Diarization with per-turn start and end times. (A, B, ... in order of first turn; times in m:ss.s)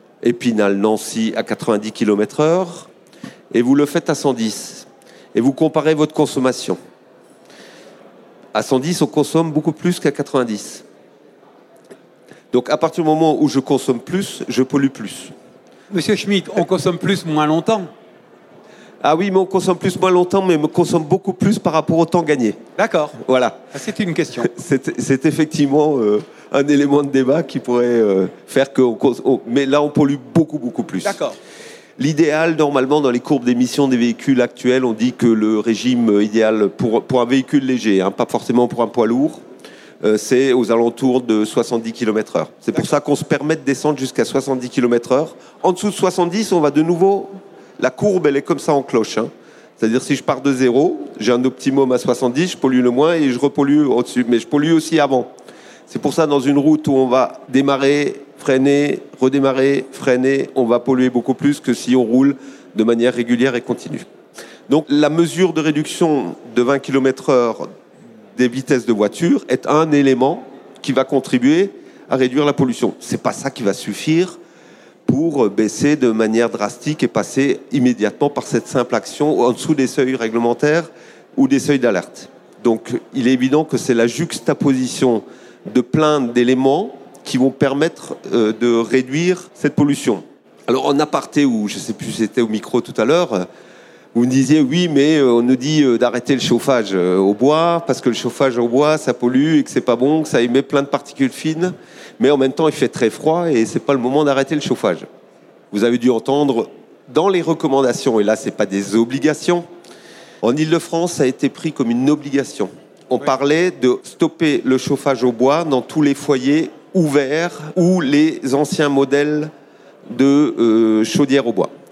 0:00.2-0:02.9 A
0:03.5-0:06.8 A
0:08.5-0:10.8 A
0:12.5-0:15.3 A
0:15.9-0:17.9 B
0:19.0-0:22.6 A
0:22.8-0:23.2 B
0:23.2-0:23.6 A
0:23.7-0:24.5 B
0:24.4-0:31.2 A
0:31.0-0:31.4 B
0:32.0-0:39.4 A
0:40.0-0:55.3 A
0:55.9-1:04.1 A
1:04.7-1:07.7 A
1:08.4-1:14.4 A
1:15.1-1:33.5 A
1:34.1-1:45.0 A
1:45.7-1:49.6 A
1:50.4-1:59.5 A
2:00.1-2:01.7 A